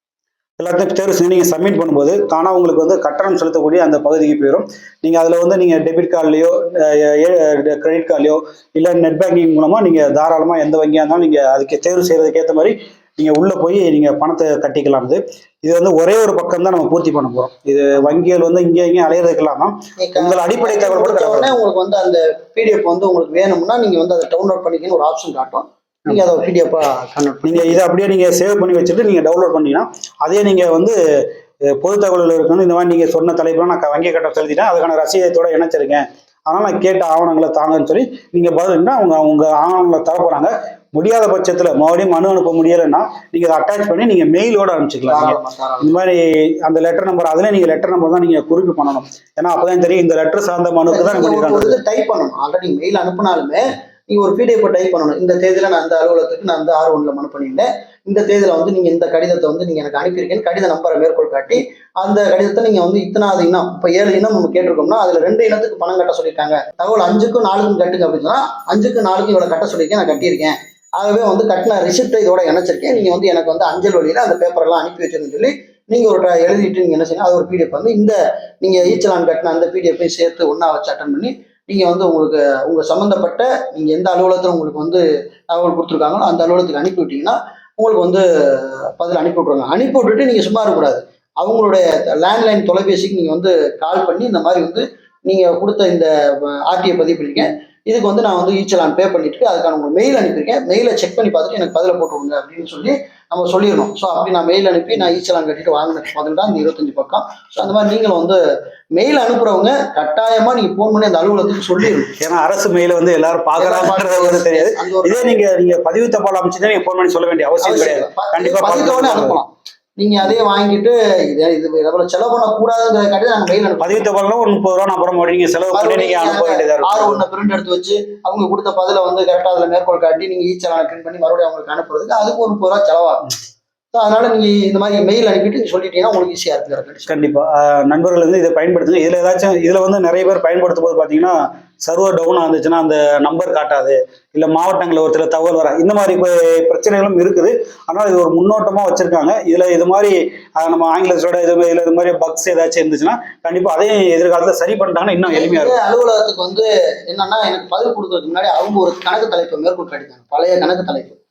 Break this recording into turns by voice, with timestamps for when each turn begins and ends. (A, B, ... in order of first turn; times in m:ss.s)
0:00.6-0:21.6 A
0:20.0-0:27.8 B
0:27.4-0:31.0 A
0:31.8-0:51.8 A
0:45.1-0:45.9 B
0:50.9-1:48.4 B
1:49.0-1:52.1 B
1:52.2-1:59.4 A
1:53.6-1:55.4 B
1:57.6-2:04.0 B
2:03.8-2:07.2 A
2:05.7-2:13.3 B
2:13.9-2:17.1 B
2:17.1-2:35.8 A
2:35.3-2:41.2 B